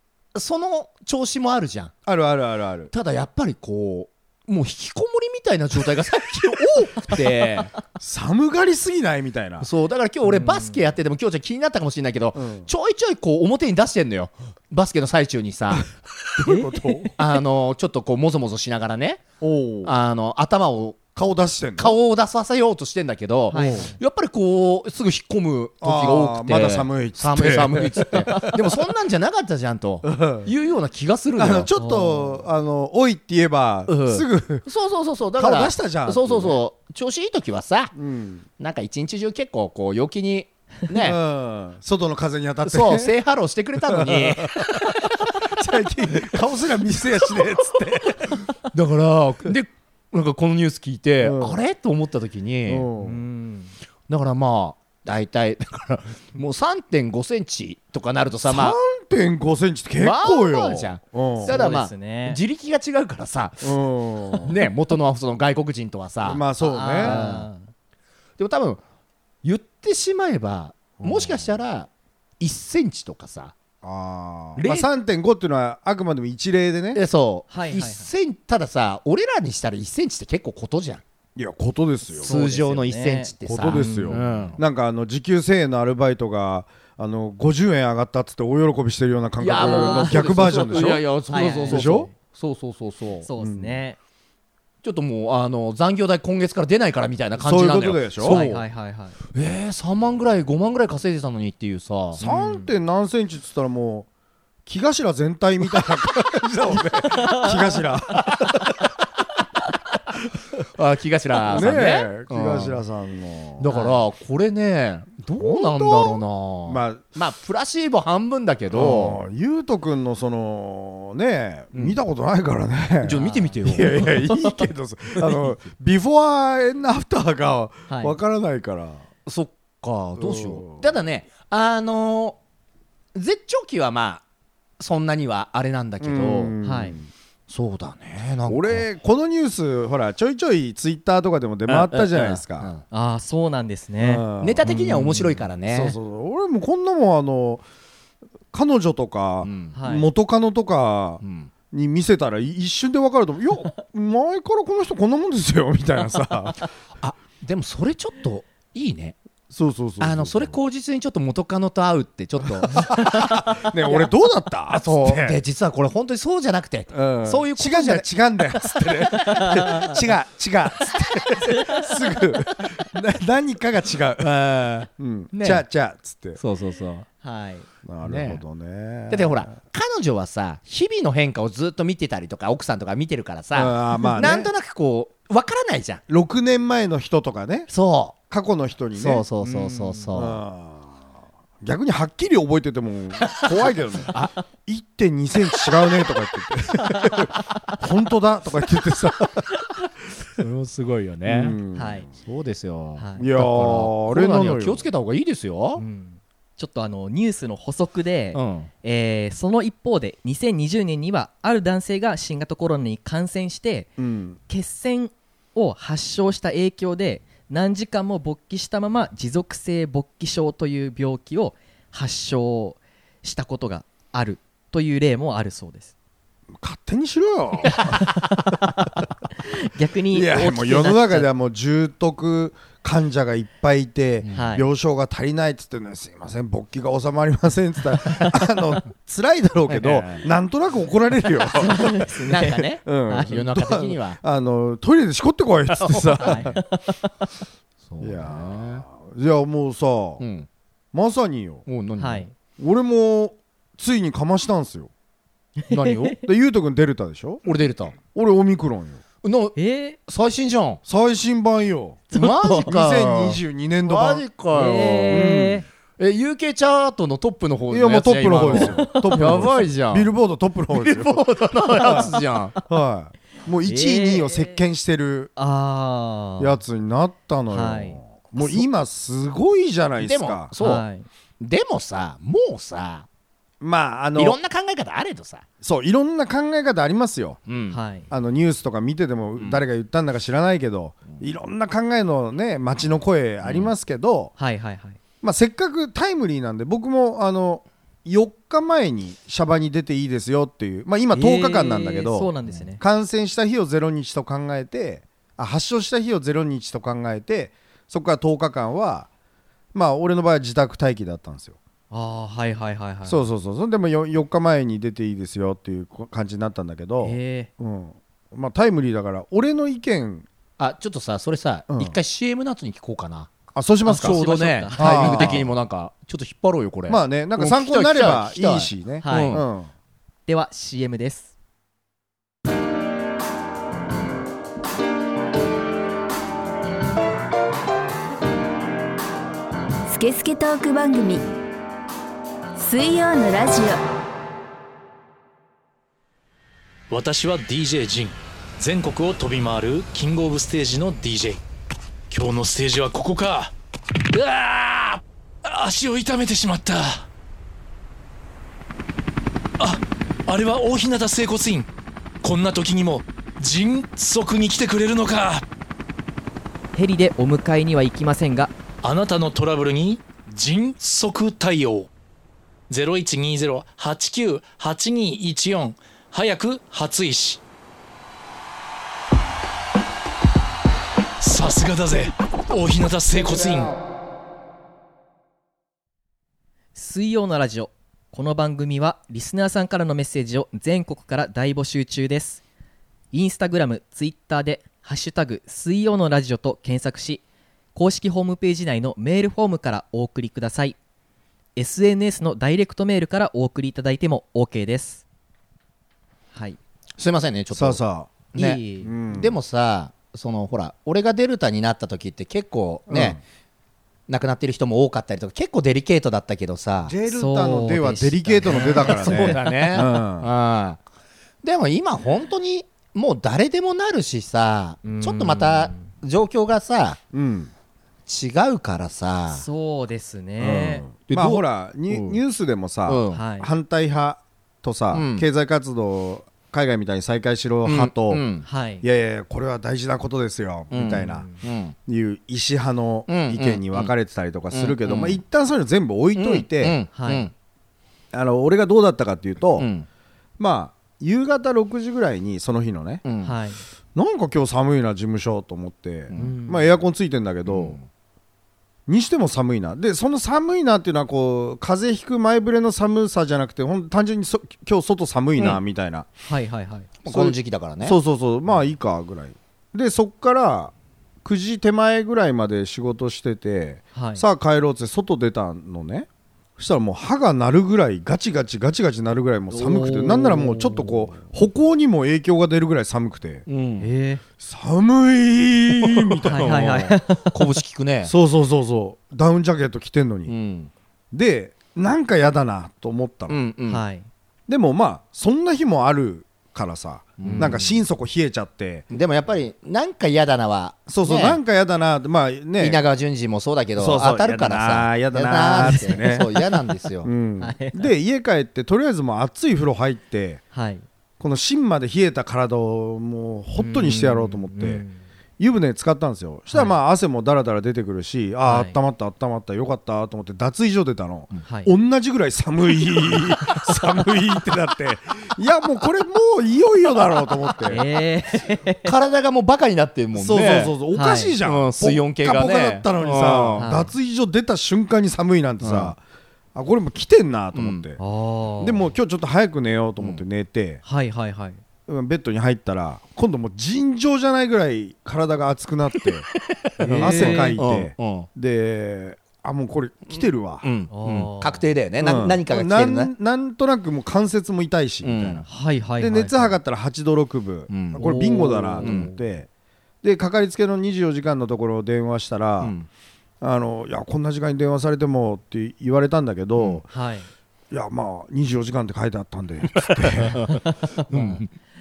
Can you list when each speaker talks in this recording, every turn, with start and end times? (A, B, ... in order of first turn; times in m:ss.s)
0:00.3-0:02.0 A
0:02.1-0:02.9 B
0:02.9-0:07.7 A
0:08.0-0:09.7 B
0:09.6-0:15.9 A
0:10.3-0:10.8 C
0:12.4-0:12.7 B
0:16.4-0:17.2 B
0:16.4-0:16.7 C
0:17.2-0:19.2 A
0:19.4-0:19.9 B
0:19.8-0:21.1 A
0:21.2-0:22.0 B
0:21.8-0:31.7 A
0:23.5-0:24.0 C
0:23.5-0:23.9 B
0:25.8-0:28.6 B
0:30.0-0:30.5 B
0:31.4-0:34.7 B
0:31.8-0:32.4 C
0:33.9-0:38.0 A
0:35.4-0:36.6 B
0:38.0-0:38.4 B
0:38.6-0:41.2 A
0:41.0-0:43.1 B
0:42.7-0:45.1 A
0:43.9-0:48.4 B
0:48.7-0:52.9 A
0:51.2-0:51.6 B
0:52.7-0:53.2 B
0:53.0-0:53.7 C
0:54.1-0:58.8 A
0:58.4-1:01.6 B
1:00.0-1:06.4 A
1:01.4-1:02.4 C
1:03.6-1:04.6 B
1:06.2-1:07.2 B
1:06.6-1:07.7 C
1:07.0-1:07.5 A
1:08.4-1:08.8 A
1:09.4-1:11.9 A
1:11.0-1:11.6 B
1:12.4-1:13.6 A
1:13.8-1:17.0 B
1:14.6-1:14.9 A
1:16.9-1:21.0 A
1:17.5-1:18.1 C
1:21.4-1:22.3 B
1:22.2-1:24.6 C
1:22.2-1:24.6 A
1:23.5-1:31.1 B
1:29.4-1:33.3 A
1:29.6-1:32.1 C
1:31.7-1:32.1 B
1:33.2-1:34.0 C
1:33.4-1:33.8 B
1:34.8-1:38.6 A
1:37.4-1:38.4 B
1:38.2-1:39.2 C
1:39.3-1:42.2 A
1:42.2-1:44.1 B
1:42.2-1:42.7 C
1:44.7-1:48.4 B
1:47.3-1:47.5 C
1:50.6-1:52.8 A
1:51.5-1:53.7 B
1:51.5-1:51.9 C
1:53.6-1:59.2 A
1:53.7-1:54.0 C
1:55.4-1:57.1 B
1:58.7-2:09.1 B
2:03.0-2:04.2 A
2:03.2-2:04.7 C
2:07.9-2:08.2 C
2:09.3-2:12.4 A
2:10.2-2:10.8 B
2:13.1-2:14.2 A
2:14.8-2:16.6 A
2:16.0-2:17.1 B
2:16.6-2:17.0 C
2:17.5-2:18.8 A
2:18.5-2:22.7 B
2:21.7-2:22.8 A
2:22.9-2:24.3 C
2:24.0-2:27.6 B
2:24.4-2:26.0 A
2:28.5-2:36.6 B
2:29.4-2:29.8 A
2:29.7-2:30.1 C
2:31.2-2:31.5 A
2:37.0-2:39.2 A
2:39.5-2:40.6 B
2:40.0-2:44.1 A
2:42.6-2:45.4 B
2:44.7-2:48.1 A
2:46.9-2:56.4 B
2:48.6-2:49.6 A
2:49.3-2:49.9 C
2:51.2-2:51.6 A
2:54.2-2:55.6 A
2:56.4-2:57.1 A
2:57.2-2:57.7 C
2:57.8-2:59.5 B
2:58.0-2:58.4 A
2:59.1-3:06.0 A
3:03.5-3:04.5 B
3:06.1-3:07.7 B
3:07.7-3:08.2 A
3:08.3-3:09.3 B
3:08.9-3:10.4 A
3:09.4-3:10.2 C
3:10.1-3:11.0 B
3:11.6-3:14.1 B
3:14.7-3:19.4 B
3:16.9-3:17.8 C
3:20.4-3:21.6 A
3:21.3-3:22.1 B
3:21.8-3:22.1 C
3:22.2-3:25.8 A
3:23.0-3:23.3 C
3:23.2-3:24.9 B
3:25.8-3:33.9 C
3:28.3-3:28.7 A
3:34.0-3:34.4 B
3:34.5-3:45.9 C
3:46.6-3:48.1 B
3:47.7-3:51.3 C
3:50.1-4:06.6 B
3:54.3-3:54.7 C
3:59.7-4:00.3 A
4:01.6-4:02.5 C
4:01.6-4:04.2 A
4:03.1-4:03.4 C
4:05.7-4:06.5 A
4:06.2-4:07.3 C
4:07.9-4:08.8 A
4:08.0-4:10.2 B
4:10.2-4:10.5 A
4:10.9-4:11.7 B
4:11.7-4:12.2 A
4:12.0-4:12.3 C
4:12.6-4:14.9 B
4:15.7-4:16.2 C
4:15.7-4:16.2 A
4:16.2-4:17.4 B
4:17.4-4:18.0 A
4:18.0-4:19.0 B
4:19.2-4:20.8 A
4:19.6-4:20.0 C
4:20.9-4:22.1 B
4:22.1-4:22.7 C
4:22.1-4:25.4 A
4:22.7-4:24.3 B
4:24.5-4:25.6 C
4:25.1-4:25.6 B
4:26.0-4:30.1 A
4:27.7-4:32.1 B
4:28.4-4:29.3 C
4:30.7-4:32.6 A
4:31.9-4:32.3 C
4:32.7-4:35.3 B
4:33.7-4:34.6 C
4:35.4-4:36.6 C
4:36.4-4:40.5 B
4:37.5-4:38.6 C
4:40.0-4:40.8 A
4:40.6-4:41.1 C
4:41.4-4:43.1 A
4:43.6-4:44.4 B
4:44.2-4:45.4 A
4:45.6-4:47.4 B
4:47.5-4:47.8 A
4:47.7-4:48.1 C
4:48.1-4:54.3 B
4:49.4-4:49.6 A
4:53.4-4:53.7 A
4:54.4-4:55.0 C
4:55.2-5:09.1 B
5:01.1-5:02.8 C
5:09.7-5:11.6 B
5:11.9-5:13.3 C
5:13.1-5:20.3 B
5:17.0-5:17.5 C
5:20.6-5:23.3 A
5:21.7-5:22.0 B
5:23.5-5:24.2 B
5:23.8-5:25.5 C
5:23.9-5:29.4 A
5:24.7-5:25.5 B
5:26.9-5:29.7 B
5:29.0-5:29.4 C
5:30.3-5:31.3 C
5:39.9-5:41.2 D
5:42.6-5:43.8 D
5:46.9-5:51.4 E
5:52.1-5:53.5 E
5:54.1-5:57.1 E
5:59.6-6:01.7 E
6:02.2-6:05.4 E
6:06.7-6:08.5 C
6:08.8-6:11.9 E
6:12.7-6:17.4 E
6:21.2-6:23.8 E
6:26.8-6:32.4 C
6:33.1-6:37.2 C
6:37.8-6:40.8 C
6:41.6-6:45.0 C
6:47.0-6:47.8 A
6:47.5-6:48.2 B
6:48.3-6:53.2 A
6:48.4-6:48.9 C
6:48.8-6:49.4 B
6:52.9-6:53.2 B
6:54.1-6:56.9 A
6:56.9-7:00.3 B
6:57.1-6:59.6 C
6:58.5-7:00.8 A
7:01.4-7:07.0 A
7:04.8-7:05.9 C
7:07.1-7:07.5 B
7:08.1-7:09.4 A
7:09.3-7:10.8 C
7:10.4-7:18.3 B
7:11.1-7:12.2 A
7:12.9-7:13.2 A
7:13.1-7:13.5 C
7:14.9-7:15.3 A
7:17.6-7:18.5 A
7:18.5-7:18.8 C
7:18.8-7:21.3 B
7:20.7-7:21.7 A
7:21.1-7:21.4 C
7:21.9-7:26.8 B
7:23.1-7:23.9 A
7:24.5-7:25.2 A
7:26.2-7:27.3 A
7:26.9-7:27.3 C
7:28.1-7:29.7 B
7:29.6-7:29.9 A
7:30.4-7:33.0 B
7:33.0-7:33.4 A
7:33.2-7:33.6 C
7:34.0-7:37.8 B
7:36.2-7:36.7 C
7:37.5-7:37.8 A
7:38.9-7:46.1 B
7:46.3-7:46.9 C
7:47.0-7:48.0 A
7:47.1-7:56.1 B
7:54.0-7:54.2 C
7:56.6-8:03.4 B
7:59.5-8:00.5 C
7:59.9-8:00.8 A
8:03.5-8:03.9 A
8:03.8-8:04.2 C
8:04.4-8:07.0 B
8:05.8-8:08.1 A
8:06.3-8:07.5 C
8:08.0-8:10.3 B
8:10.3-8:10.7 A
8:11.1-8:13.4 B
8:13.3-8:13.8 A
8:13.7-8:14.1 C
8:14.5-8:18.8 B
8:17.2-8:17.6 A
8:17.2-8:17.8 C
8:18.9-8:21.4 A
8:20.9-8:22.8 B
8:22.6-8:27.1 A
8:23.8-8:26.3 B
8:25.6-8:26.8 C
8:27.0-8:30.4 B
8:27.4-8:27.9 C
8:30.5-8:30.8 C
8:31.2-8:34.8 B
8:33.6-8:35.0 C
8:35.4-8:47.8 B
8:38.4-8:38.8 C
8:41.4-8:41.7 C
8:47.7-8:48.9 C
8:48.8-8:50.8 A
8:50.1-8:56.0 B
8:50.9-8:51.4 C
8:51.4-8:53.7 A
8:53.6-8:53.9 C
8:55.6-8:55.9 A
8:56.6-8:58.0 B
8:57.5-8:57.8 A
8:58.0-8:58.9 C
8:58.6-9:00.8 B
9:00.8-9:01.6 C
9:01.9-9:06.3 B
9:06.8-9:07.6 C
9:06.8-9:10.7 B
9:06.8-9:08.3 A
9:10.1-9:13.1 A
9:10.9-9:11.6 C
9:12.0-9:15.5 B
9:15.0-9:15.4 A
9:15.5-9:16.6 C
9:16.0-9:19.5 B
9:17.7-9:19.1 A
9:18.0-9:19.2 C
9:20.0-9:22.7 B
9:22.6-9:22.9 A
9:23.4-9:26.9 B
9:26.9-9:27.3 C
9:27.7-9:30.5 B
9:29.8-9:30.6 A
9:30.5-9:31.4 C
9:31.1-9:31.5 A